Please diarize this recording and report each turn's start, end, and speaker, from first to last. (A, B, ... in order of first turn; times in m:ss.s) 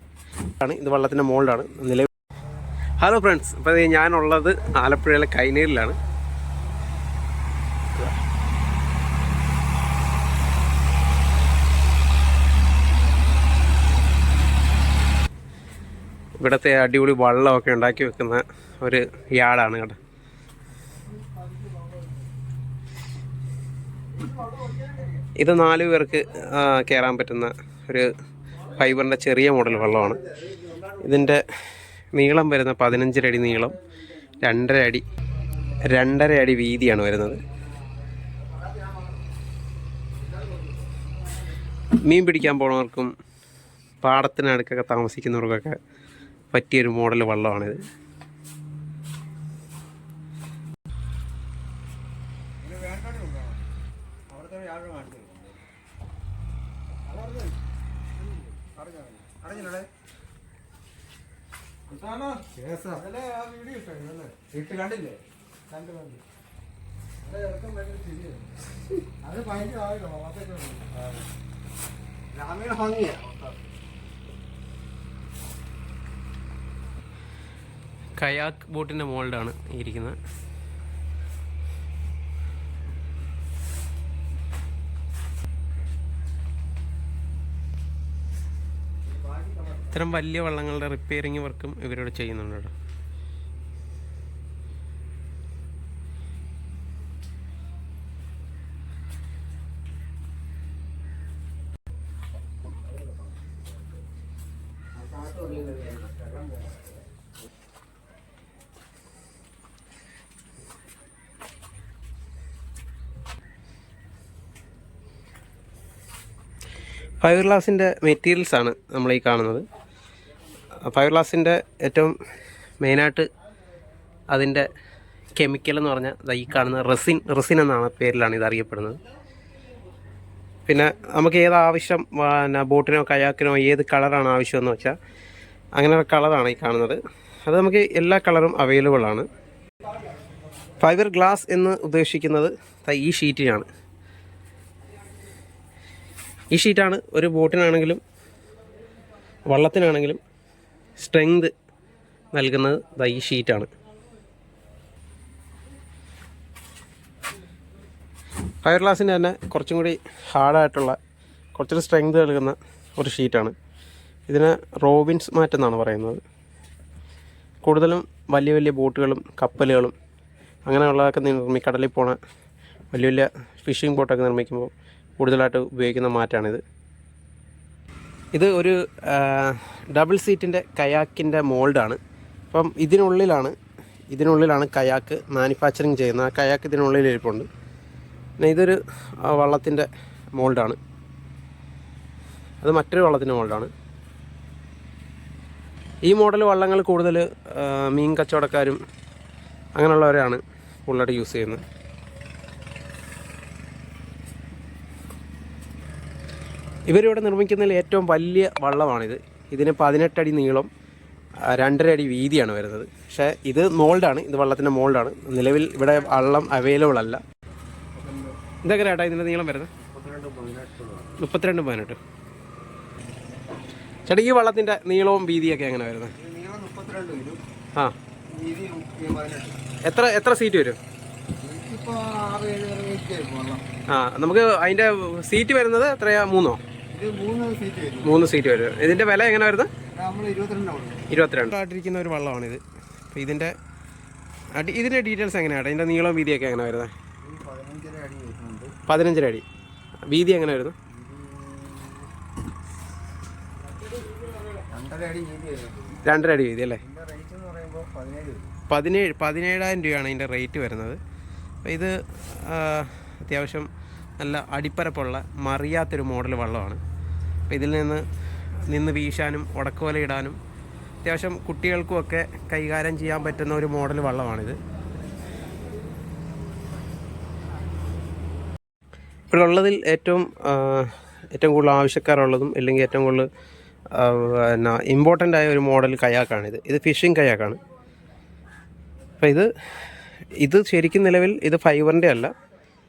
0:00.6-0:02.1 A
0:03.0-0:06.0 A
0:16.4-0:20.0 A
0:25.4-0:28.1 A
0:28.7-0:30.2 A
0:31.0-0:31.4 A
0:32.1-0:33.8 A
0:34.4-0:35.0 A
0:35.8-0:37.4 A
0:42.0-0:43.1 A
0:44.0-0:45.8 A
0:46.5-0:47.8 A
0:52.6-0:53.6 B
0:54.3-0:55.6 B
0:58.7-0:59.9 B
1:01.9-1:06.2 B
1:07.2-1:08.5 B
1:09.2-1:11.0 B
1:12.3-1:13.6 B
1:18.2-1:20.2 A
1:29.8-1:32.7 A
1:45.0-1:46.3 B
1:57.2-1:59.6 A
2:00.8-2:02.2 A
2:02.8-2:03.3 A
2:04.3-2:04.7 A
2:05.4-2:09.0 A
2:10.7-2:15.0 A
2:15.8-2:19.3 A
2:20.8-2:23.7 A
2:26.5-2:28.0 A
2:29.5-2:30.2 A
2:31.0-2:31.5 A
2:32.3-2:33.7 A
2:38.6-2:41.0 A
2:41.5-2:43.5 A
2:44.3-2:46.2 A
2:47.6-2:49.9 A
2:50.7-2:52.2 A
2:52.9-2:56.6 A
2:58.3-3:02.0 A
3:02.5-3:03.5 A
3:04.1-3:07.5 A
3:08.4-3:10.8 A
3:12.6-3:13.7 A
3:16.0-3:18.8 A
3:19.8-3:21.6 A
3:26.9-3:30.7 A
3:31.4-3:37.2 A
3:37.9-3:38.4 B
3:38.6-3:39.7 A
3:39.8-3:41.2 B
3:41.2-3:42.0 A
3:44.1-3:46.1 A
3:46.2-3:47.4 B
3:48.3-3:49.6 B
3:49.8-3:50.8 A
3:51.4-3:53.6 B
3:53.9-3:56.6 A
3:56.9-3:58.3 B
3:58.0-3:59.7 A
3:59.9-4:01.1 B
4:01.1-4:02.6 A
4:03.1-4:03.5 A
4:04.6-4:06.9 A
4:07.2-4:08.8 B
4:08.9-4:09.4 A
4:10.1-4:10.8 A
4:10.9-4:12.1 B
4:14.5-4:16.0 B
4:16.0-4:16.8 A
4:16.8-4:18.5 B
4:18.7-4:21.0 A
4:21.6-4:26.8 A
4:27.5-4:28.0 A
4:28.6-4:30.4 A
4:31.0-4:34.6 A
4:39.3-4:43.3 A
4:43.9-4:47.6 A
4:49.2-4:49.5 A
4:50.4-4:52.3 A